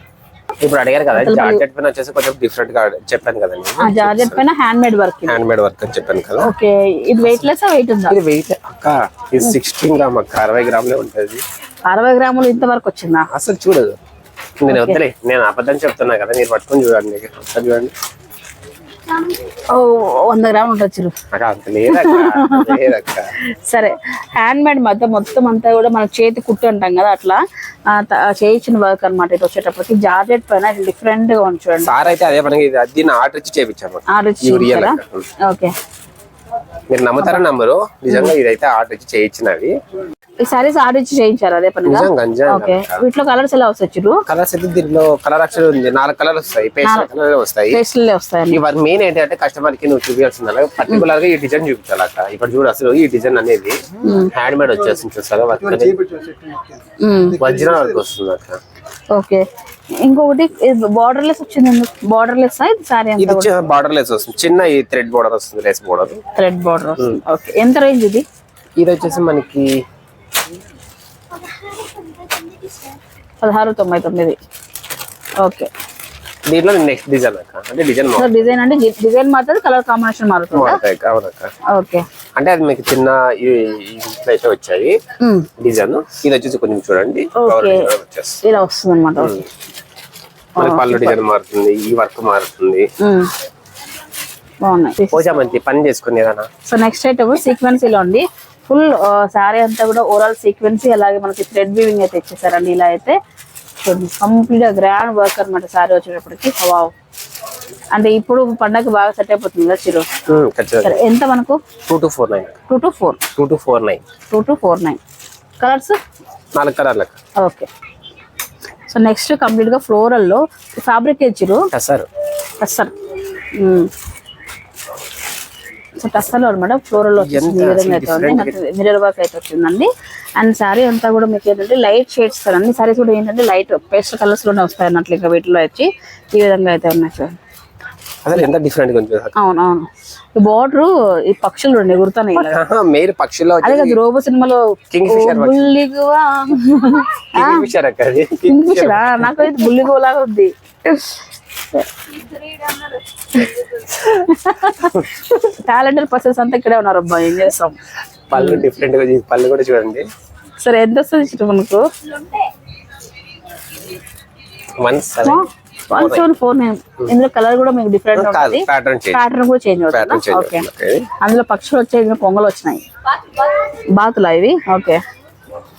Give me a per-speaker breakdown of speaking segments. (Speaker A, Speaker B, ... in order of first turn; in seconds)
Speaker A: 0.6-4.4, 5.3-6.5, 8.1-11.4, 13.3-14.0, 14.6-17.9, 21.3-23.3, 31.8-35.3, 36.9-39.8, 41.9-43.0, 44.3-47.8, 48.5-56.3, 57.4-58.6, 63.2-66.2, 68.8-69.8, 76.5-78.4, 80.5-81.5, 82.4-85.0, 85.6-88.4, 90.6-92.9, 95.1-96.5, 110.3-111.0, 111.9-112.6, 113.4-114.0, 116.5-117.2, 121.7-122.1, 127.1-128.6, 138.2-139.3, 142.3-144.0, 144.9-145.7, 147.3-149.5, 158.3-160.1, 164.8-166.3, 168.1-169.3, 169.9-171.1
Speaker B: 1.1-1.6, 3.8-5.4, 6.4-8.2, 11.9-13.3, 14.7-15.0, 19.3-21.2, 21.9-22.9, 23.7-32.1, 34.1-35.7, 40.4-44.2, 47.7-48.6, 54.0-54.3, 57.0-57.5, 59.1-59.5, 60.0-63.5, 66.4-68.2, 73.4-74.4, 75.4-75.7, 78.2-80.8, 81.7-82.0, 85.2-85.5, 87.3-87.9, 88.4-89.5, 90.6-91.2, 93.0-93.3, 94.6-95.4, 96.7-103.2, 103.8-106.9, 107.9-110.1, 110.8-111.6, 112.7-113.3, 114.3-115.0, 115.6-116.0, 117.4-117.7, 118.9-121.7, 122.6-122.9, 123.6-123.9, 126.0-137.4, 139.4-142.6, 143.6-147.7, 148.4-157.8, 158.3-158.7, 160.6-162.3, 165.2-170.7, 171.2-175.0